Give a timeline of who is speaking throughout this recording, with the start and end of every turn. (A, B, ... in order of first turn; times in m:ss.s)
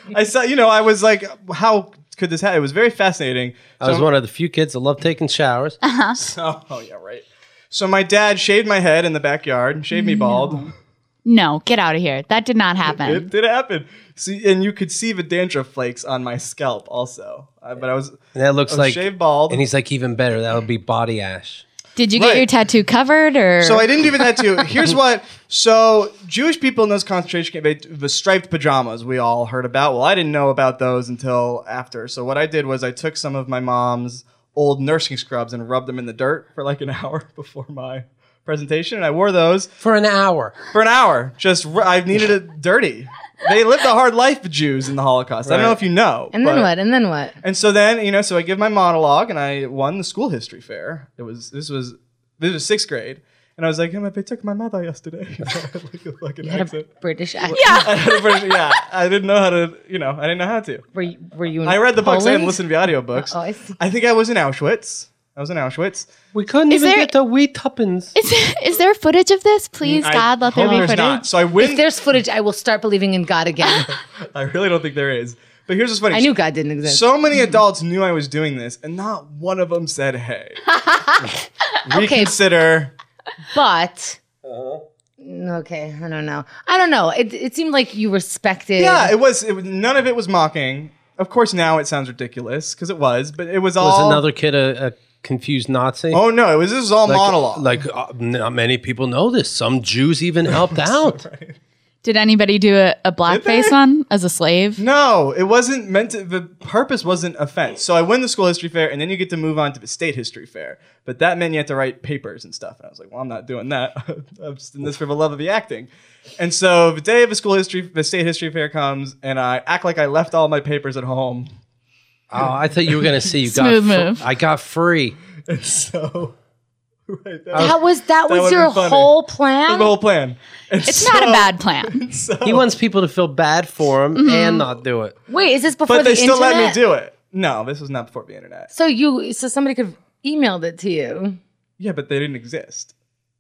0:00.1-0:04.1 A
0:03.8-0:05.8 B
0:05.8-0:06.2 C
0:06.2-0:10.7 A
0:09.9-0:10.7 C
0:11.2-0:13.3 C
0:12.8-0:19.6 A
0:18.3-0:21.6 B
0:22.0-0:23.9 C
0:22.1-0:22.5 A
0:23.6-0:39.7 A
0:39.8-0:40.6 B
0:40.7-0:46.7 A
0:45.4-0:45.8 B
0:46.3-0:47.4 D
0:47.4-0:56.9 A
0:56.4-0:57.8 D
0:57.4-1:00.9 A
0:57.5-0:58.7 C
1:00.9-1:02.6 D
1:01.6-1:06.1 A
1:03.1-1:03.7 D
1:06.3-1:08.1 B
1:06.7-1:07.1 C
1:08.1-1:11.2 C
1:09.8-1:11.8 A
1:11.6-1:13.9 D
1:13.9-1:16.3 A
1:16.1-1:17.0 D
1:16.8-1:20.6 A
1:21.8-1:22.9 A
1:21.9-1:22.3 D
1:23.5-1:24.2 D
1:24.4-1:24.8 B
1:25.2-1:29.1 D
1:28.8-1:34.2 A
1:33.8-1:36.2 B
1:36.1-1:37.7 A
1:37.0-1:41.2 B
1:40.5-1:41.6 A
1:42.0-1:44.8 C
1:43.3-1:43.8 A
1:44.8-2:01.5 A
2:02.3-2:05.2 B
2:03.4-2:04.3 C
2:05.5-2:06.4 A
2:07.1-2:09.1 A
2:07.5-2:09.9 D
2:09.7-2:12.6 A
2:10.8-2:12.0 C
2:12.4-2:15.1 B
2:14.1-2:14.7 C
2:15.3-2:16.8 D
2:15.9-2:18.7 A
2:18.7-2:21.4 D
2:21.8-2:22.9 A